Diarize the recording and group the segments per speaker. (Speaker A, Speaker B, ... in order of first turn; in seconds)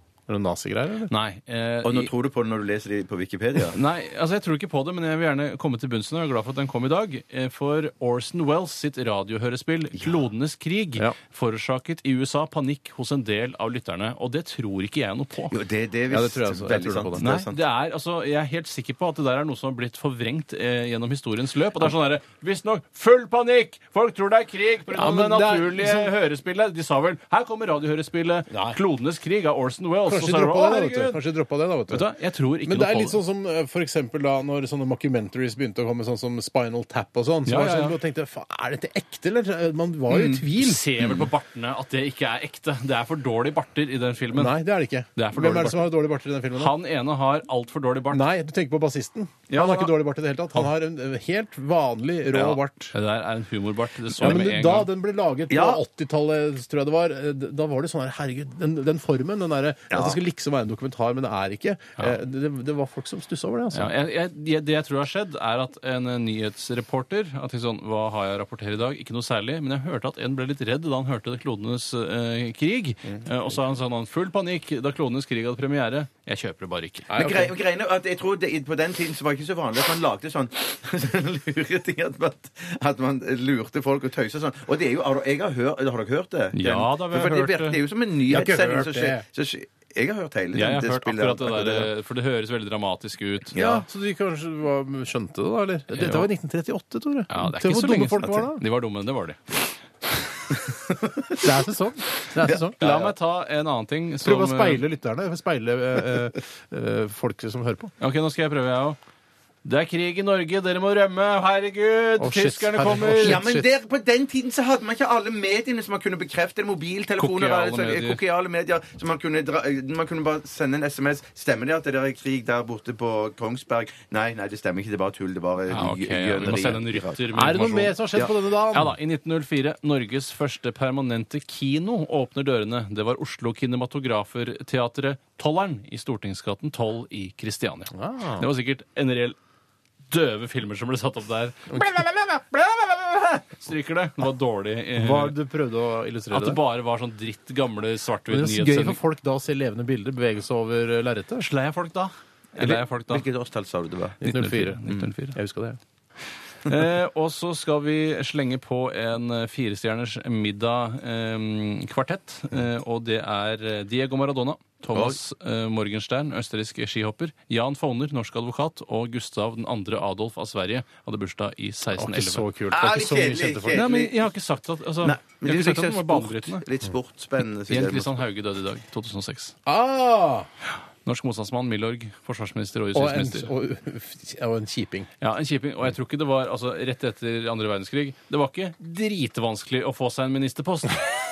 Speaker A: 0.3-1.1, 16.1-17.3, 24.9-26.1, 28.5-28.8, 30.1-32.1, 32.7-40.8, 44.3-46.8, 48.1-52.9, 54.1-63.9, 77.1-77.5, 88.3-89.2, 93.5-98.6, 101.4-102.8, 104.2-107.9, 112.2-113.7, 127.3-129.0, 137.9-138.5, 145.0-146.6, 148.3-151.5, 154.2-155.8, 172.0-174.1, 179.7-180.5, 182.9-185.1
Speaker B: 1.1-2.1, 3.7-15.5, 17.2-31.2, 31.9-33.2, 37.5-38.0, 40.6-44.6, 45.2-45.9, 46.5-48.2, 49.5-49.9, 52.9-54.9, 63.7-77.3, 86.5-87.8, 90.5-93.6, 95.9-96.3, 97.3-100.5, 102.8-104.8, 108.0-109.0, 109.6-113.4, 117.2-118.2, 125.7-128.0, 128.7-139.4, 140.1-145.4, 146.3-149.0, 151.4-153.2, 154.2-155.4, 156.7-172.5, 173.7-176.6, 177.7-179.6, 181.1-183.5, 185.2-191.1
Speaker C: 1.8-3.8, 15.5-17.6, 40.1-40.4, 52.3-52.6, 55.5-55.8, 59.9-60.2, 77.2-91.9, 93.5-93.8, 102.5-103.1, 113.2-127.2, 152.6-154.2, 164.9-165.2, 172.7-174.2, 175.0-178.2